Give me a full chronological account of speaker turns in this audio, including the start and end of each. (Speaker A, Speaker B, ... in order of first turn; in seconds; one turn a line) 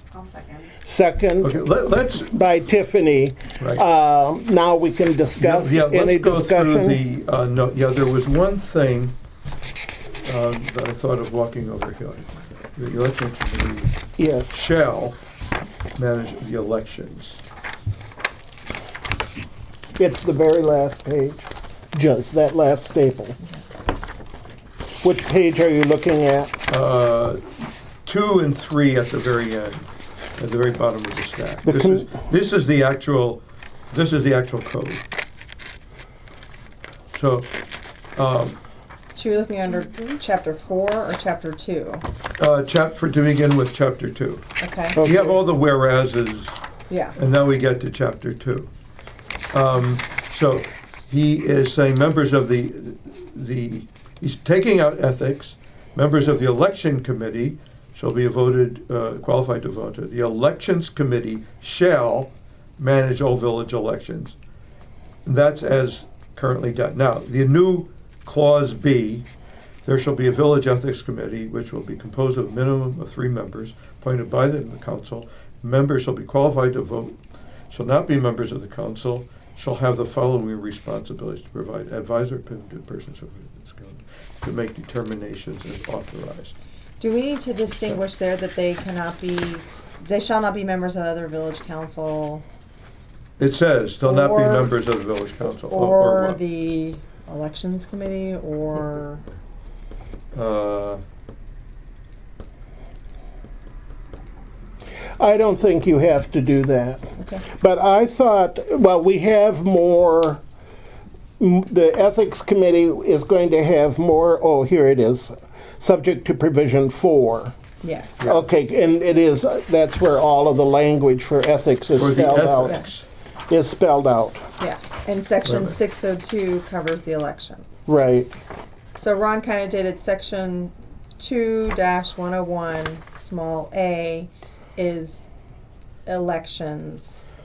Speaker A: 0.1-0.8
Speaker B: 0.8-1.6
Speaker C: 1.4-2.3
Speaker B: 2.2-7.0
Speaker C: 5.4-9.2
Speaker C: 10.2-13.9
Speaker B: 14.2-14.7
Speaker C: 14.5-15.2
Speaker C: 16.0-17.4
Speaker B: 19.9-23.4
Speaker B: 25.0-26.6
Speaker C: 26.7-27.4
Speaker C: 28.1-35.0
Speaker B: 31.6-32.1
Speaker C: 37.1-37.5
Speaker C: 38.2-38.6
Speaker A: 39.1-42.0
Speaker C: 42.4-44.4
Speaker A: 44.6-45.0
Speaker B: 44.9-45.4
Speaker C: 45.0-46.6
Speaker A: 46.9-47.2
Speaker C: 47.2-48.7
Speaker C: 49.5-64.3
Speaker C: 65.2-69.3
Speaker C: 69.8-77.2
Speaker C: 77.7-86.6
Speaker A: 87.0-92.4
Speaker C: 93.4-96.4
Speaker A: 94.0-94.8
Speaker A: 95.5-99.2
Speaker C: 100.3-101.0
Speaker B: 105.2-110.4
Speaker A: 107.2-107.4
Speaker B: 111.4-117.5
Speaker A: 117.8-118.3
Speaker C: 118.2-118.5
Speaker B: 118.3-122.9
Speaker C: 122.0-123.1
Speaker A: 122.6-122.9
Speaker B: 123.5-124.5
Speaker A: 124.6-127.9
Speaker C: 125.4-125.8
Speaker B: 127.9-128.3
Speaker A: 129.0-135.3
Speaker A: 136.1-137.2